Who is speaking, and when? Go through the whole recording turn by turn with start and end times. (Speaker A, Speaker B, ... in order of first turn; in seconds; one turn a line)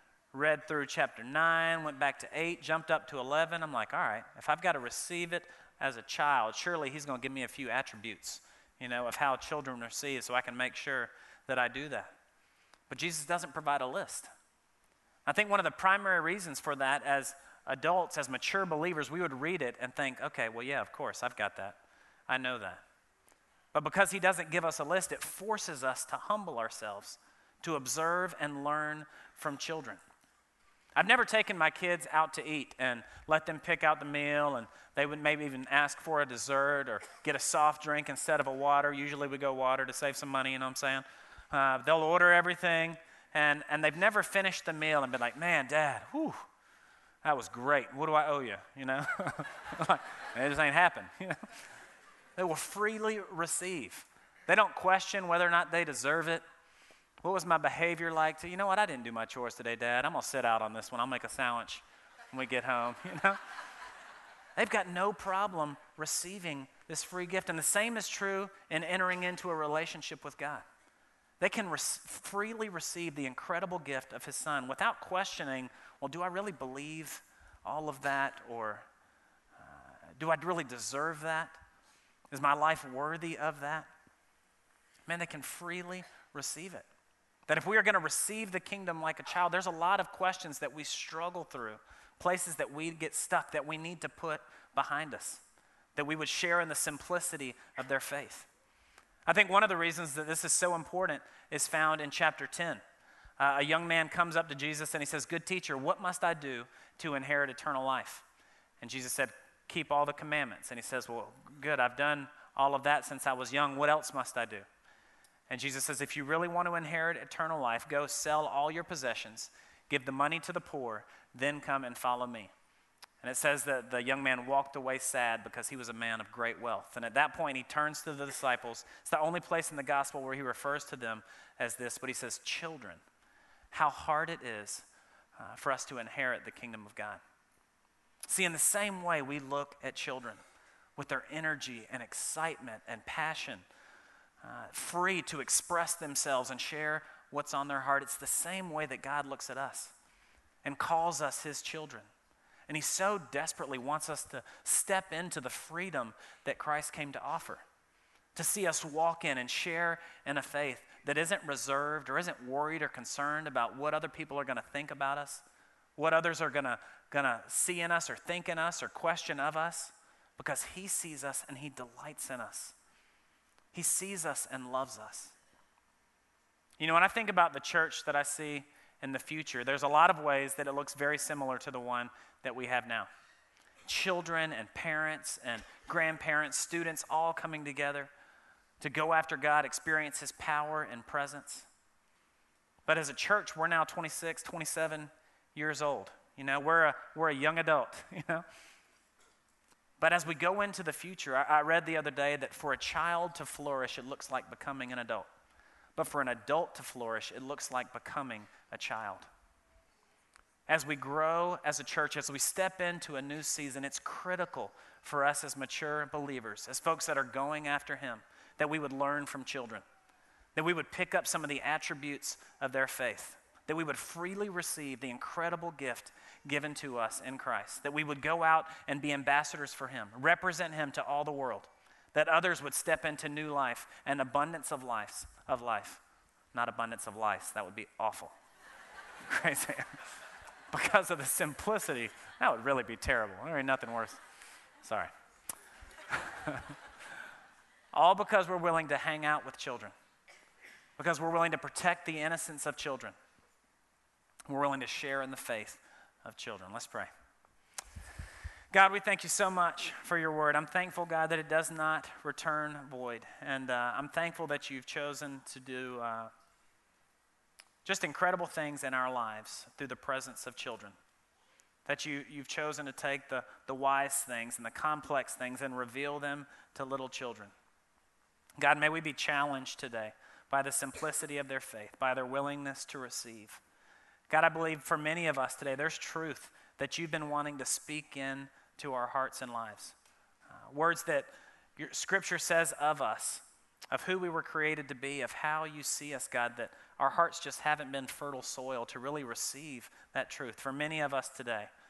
Speaker A: 0.3-12.1
Speaker A: 12.9-14.3
Speaker A: 15.2-22.8
Speaker A: 23.7-30.0
Speaker A: 30.9-46.5
Speaker A: 47.2-51.4
Speaker A: 52.4-56.4
Speaker A: 57.2-63.4
Speaker A: 64.6-70.6
Speaker A: 71.4-78.8
Speaker A: 79.6-81.6
Speaker A: 82.3-83.9
Speaker A: 85.1-86.8
Speaker A: 87.5-95.4
Speaker A: 96.0-98.5
Speaker A: 99.3-102.8
Speaker A: 103.4-108.2
Speaker A: 108.8-114.6
Speaker A: 115.5-122.5
Speaker A: 123.2-133.0
Speaker A: 133.7-134.8
Speaker A: 135.4-137.2
Speaker A: 138.3-140.4
Speaker A: 141.0-143.6
Speaker A: 144.4-149.9
Speaker A: 150.6-152.1
Speaker A: 152.7-157.6
Speaker A: 158.3-165.4
Speaker A: 166.0-172.7
Speaker A: 173.7-175.3
Speaker A: 176.8-183.1
Speaker A: 183.9-188.1
Speaker A: 188.8-191.7
Speaker A: 192.8-198.4
Speaker A: 200.0-205.3
Speaker A: 205.9-209.3
Speaker A: 210.7-219.8
Speaker A: 220.5-236.0
Speaker A: 236.5-238.3
Speaker A: 239.2-240.0
Speaker A: 240.7-244.2
Speaker A: 244.8-245.1
Speaker A: 246.1-246.7
Speaker A: 247.9-249.9
Speaker A: 251.0-253.2
Speaker A: 254.5-257.1
Speaker A: 258.7-266.3
Speaker A: 267.8-270.9
Speaker A: 271.9-277.5
Speaker A: 278.6-283.6
Speaker A: 284.3-289.9
Speaker A: 290.5-301.7